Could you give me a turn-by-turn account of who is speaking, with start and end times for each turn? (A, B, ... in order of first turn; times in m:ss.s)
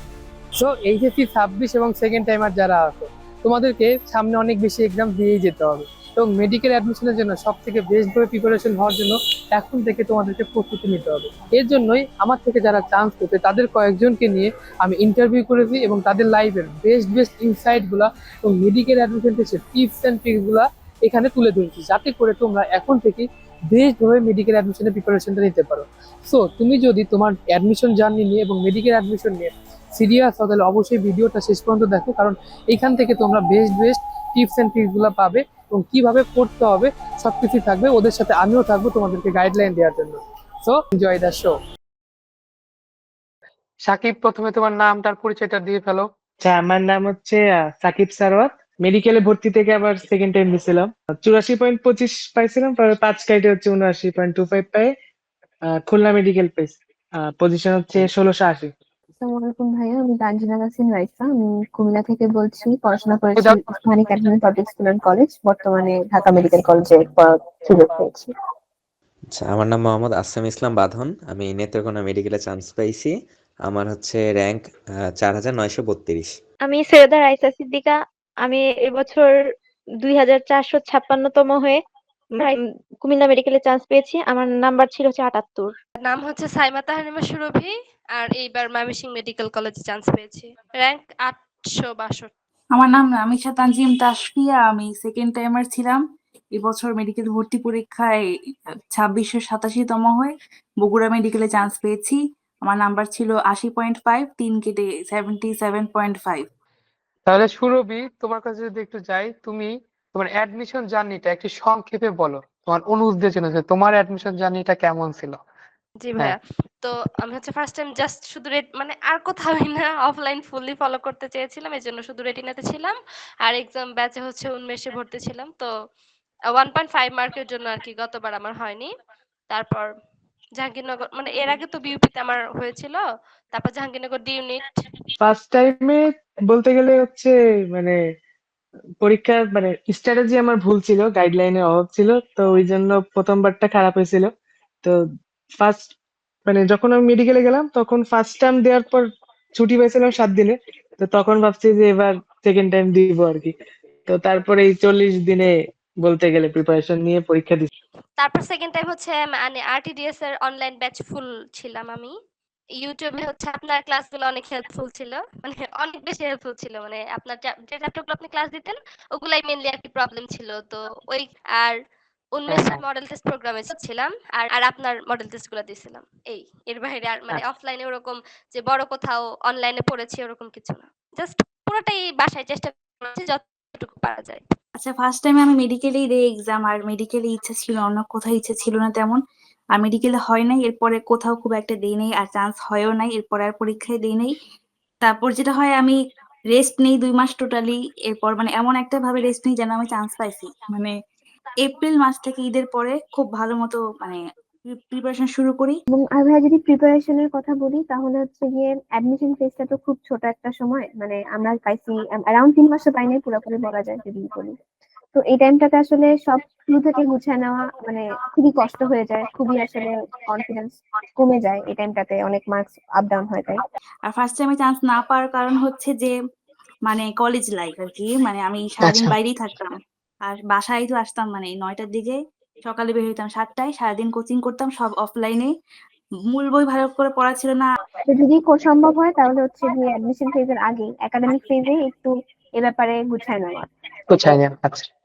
0:00.6-0:41.6 A
0:43.9-0:46.1 B
0:46.4-0:54.9 C
0:55.7-0:58.7 C
0:59.2-1:08.3 D
1:09.3-1:13.1 E
1:13.6-1:16.3 E
1:16.6-1:19.3 F
1:20.0-1:21.8 F
1:22.4-1:25.7 F
1:26.0-1:32.3 G
1:32.7-1:36.0 H
1:36.6-1:38.2 H
1:38.9-1:46.4 H
1:47.3-1:55.4 B
1:56.0-2:05.7 G
2:06.5-2:08.9 G
2:09.5-2:09.9 G
2:10.6-2:13.0 G
2:13.5-2:14.8 G
2:15.2-2:18.0 C
2:19.0-2:24.3 C
2:25.6-2:25.9 C
2:26.5-2:29.0 C
2:29.6-2:33.5 C
2:34.1-2:35.5 C
2:36.0-2:37.7 C
2:38.2-2:42.1 G
2:42.8-2:51.8 G
2:52.4-3:04.4 G
2:52.5-2:52.8 B
3:04.8-3:09.2 H
3:09.7-3:14.3 H
3:15.0-3:16.0 H
3:16.5-3:20.9 H
3:21.6-3:25.8 H
3:25.9-3:34.6 D
3:35.1-3:43.6 D
3:44.1-3:46.1 H
3:46.8-3:49.7 H
3:48.8-3:49.1 B
3:50.2-3:55.5 H
3:56.3-3:57.7 H
3:58.0-4:03.7 D
4:04.1-4:04.9 B